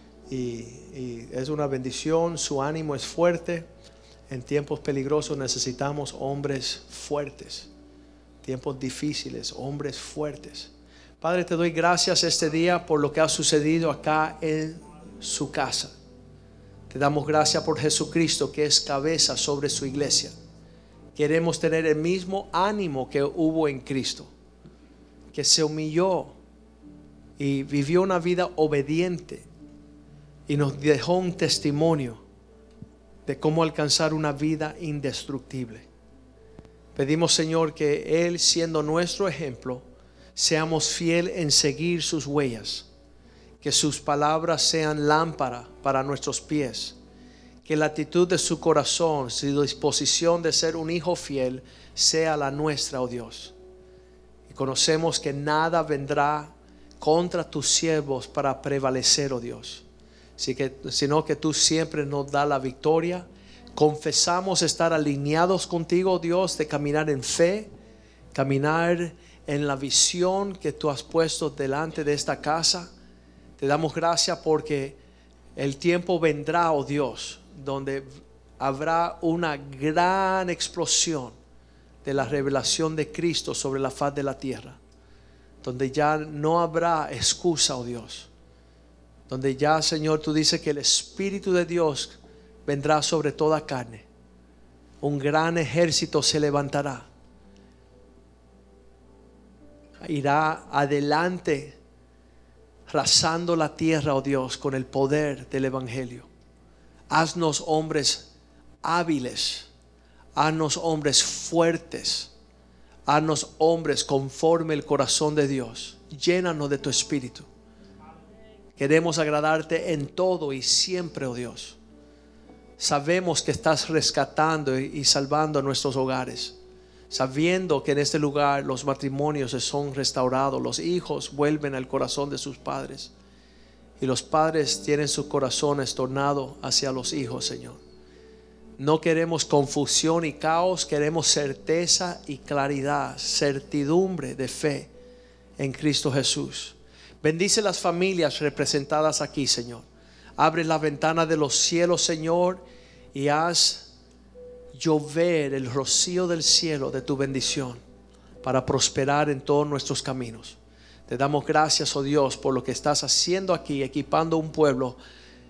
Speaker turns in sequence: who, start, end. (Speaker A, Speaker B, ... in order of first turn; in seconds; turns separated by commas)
Speaker A: 0.3-3.7, Speaker A: 4.3-7.7, Speaker A: 8.4-15.9, Speaker A: 16.9-20.3, Speaker A: 21.1-24.3, Speaker A: 25.3-26.4, Speaker A: 27.4-29.5, Speaker A: 30.5-32.2, Speaker A: 33.3-35.9, Speaker A: 37.0-42.9, Speaker A: 43.6-47.0, Speaker A: 47.6-53.5, Speaker A: 54.5-59.9, Speaker A: 60.4-67.7, Speaker A: 68.3-72.9, Speaker A: 73.6-75.0, Speaker A: 75.6-78.1, Speaker A: 78.6-81.3, Speaker A: 82.0-84.8, Speaker A: 85.6-88.3, Speaker A: 89.3-94.0, Speaker A: 95.0-97.1, Speaker A: 100.0-101.8, Speaker A: 102.9-106.3, Speaker A: 107.1-108.3, Speaker A: 108.8-109.7, Speaker A: 110.3-112.3, Speaker A: 113.1-117.5, Speaker A: 118.8-121.8, Speaker A: 122.8-126.6, Speaker A: 127.1-133.1, Speaker A: 134.0-137.8, Speaker A: 138.8-144.9, Speaker A: 145.6-149.8, Speaker A: 150.4-152.6, Speaker A: 153.1-153.9, Speaker A: 154.7-157.8, Speaker A: 158.4-160.6, Speaker A: 161.1-165.0